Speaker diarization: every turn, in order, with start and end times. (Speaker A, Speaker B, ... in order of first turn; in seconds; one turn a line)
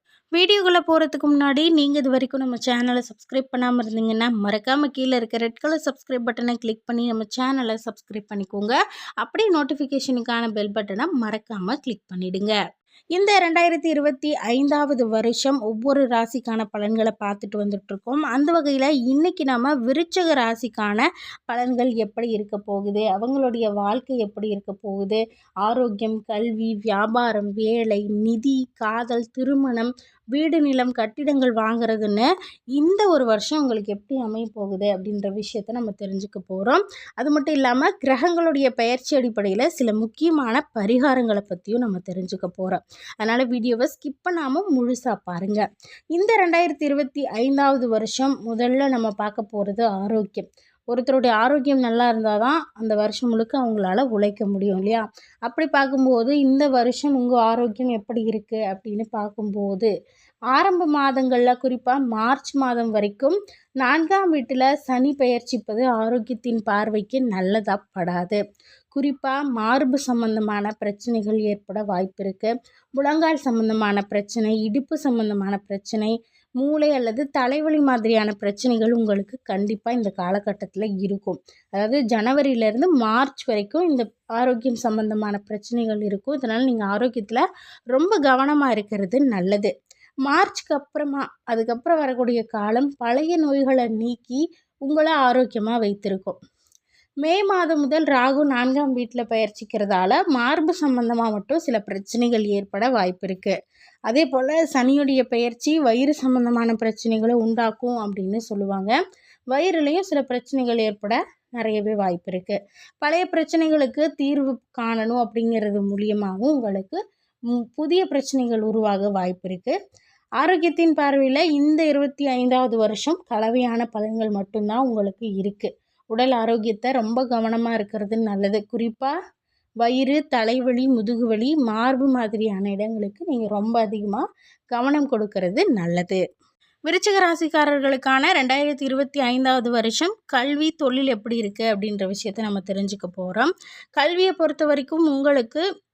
Speaker A: 0.3-12.6
Speaker A: 13.1-59.9
Speaker A: 60.5-68.4
Speaker A: 68.9-89.7
Speaker A: 90.2-96.3
Speaker A: 97.2-103.5
Speaker A: 104.1-109.0
Speaker A: 109.5-117.0
Speaker A: 117.5-119.8
Speaker A: 120.4-129.1
Speaker A: 129.8-136.2
Speaker A: 136.9-145.6